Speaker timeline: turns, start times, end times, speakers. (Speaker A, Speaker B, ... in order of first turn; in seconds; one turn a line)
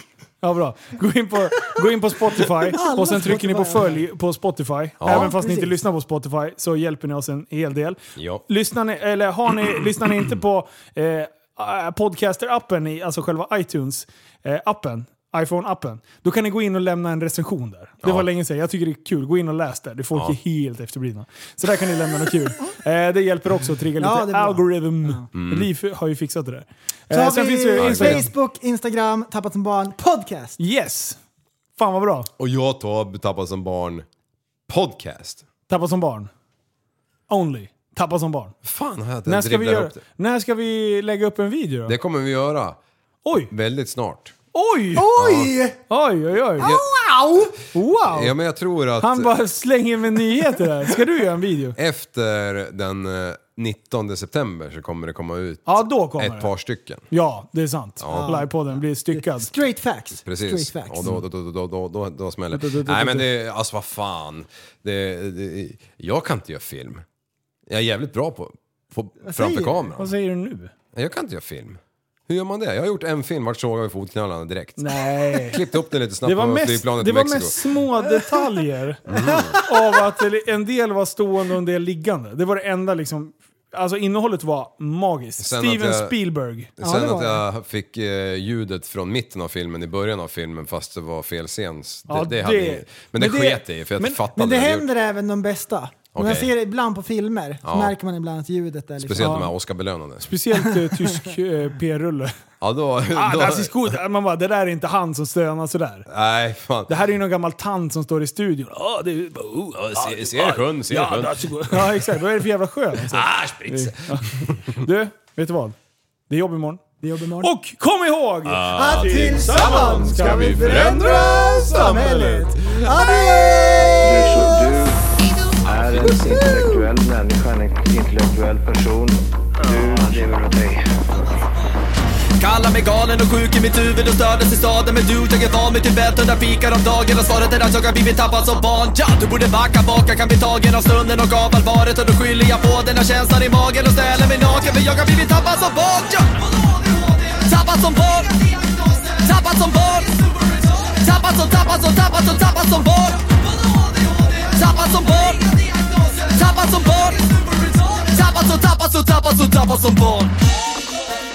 Speaker A: 0.4-28.3
Speaker B: 2.7-4.0
Speaker C: 5.0-5.3
Speaker B: 5.0-5.8
Speaker C: 8.2-8.4
Speaker B: 24.0-25.2
Speaker C: 25.3-25.7
Speaker B: 27.1-30.6
Speaker C: 27.8-28.3
Speaker A: 30.6-31.2
Speaker A: 31.8-32.3
Speaker C: 32.4-34.1
Speaker C: 34.7-35.4
Speaker A: 35.7-36.3
Speaker A: 37.3-38.5
Speaker C: 38.6-40.0
Speaker A: 39.3-42.0
Speaker C: 41.9-42.8
Speaker A: 43.2-43.5
Speaker C: 43.5-44.4
Speaker A: 44.5-45.1
Speaker B: 45.0-45.8
Speaker C: 45.2-45.5
Speaker A: 45.9-46.7
Speaker B: 46.6-47.5
Speaker C: 46.6-46.9
Speaker A: 47.7-48.4
Speaker C: 48.0-49.3
Speaker A: 49.0-51.8
Speaker C: 51.8-57.1
Speaker A: 55.7-56.5
Speaker A: 57.1-59.5
Speaker C: 58.0-58.3
Speaker B: 58.1-61.1
Speaker C: 60.2-67.0
Speaker A: 62.5-63.3
Speaker C: 67.7-70.1
Speaker B: 69.2-69.9
Speaker A: 70.0-70.7
Speaker C: 70.9-77.6
Speaker A: 74.8-75.7
Speaker A: 76.2-86.7
Speaker C: 79.1-79.6
Speaker B: 79.1-79.8
Speaker C: 85.4-86.2
Speaker C: 86.8-94.9
Speaker B: 86.8-87.4
Speaker A: 92.1-94.2
Speaker B: 94.3-99.5
Speaker C: 96.2-96.5
Speaker C: 97.6-98.0
Speaker C: 99.0-100.3
Speaker A: 99.2-99.5
Speaker A: 100.2-102.3
Speaker C: 102.6-103.8
Speaker A: 103.1-106.1
Speaker C: 106.1-107.0
Speaker A: 106.9-115.8
Speaker C: 109.9-112.0
Speaker C: 113.1-114.8
Speaker A: 116.3-116.8
Speaker B: 117.0-117.5
Speaker A: 117.4-121.1
Speaker C: 118.5-123.1
Speaker B: 118.7-124.7
Speaker D: 124.0-125.1
Speaker E: 125.2-125.7
Speaker D: 125.6-130.8
Speaker C: 125.7-126.4
Speaker B: 126.1-126.8
Speaker E: 129.7-130.2
Speaker E: 132.4-160.3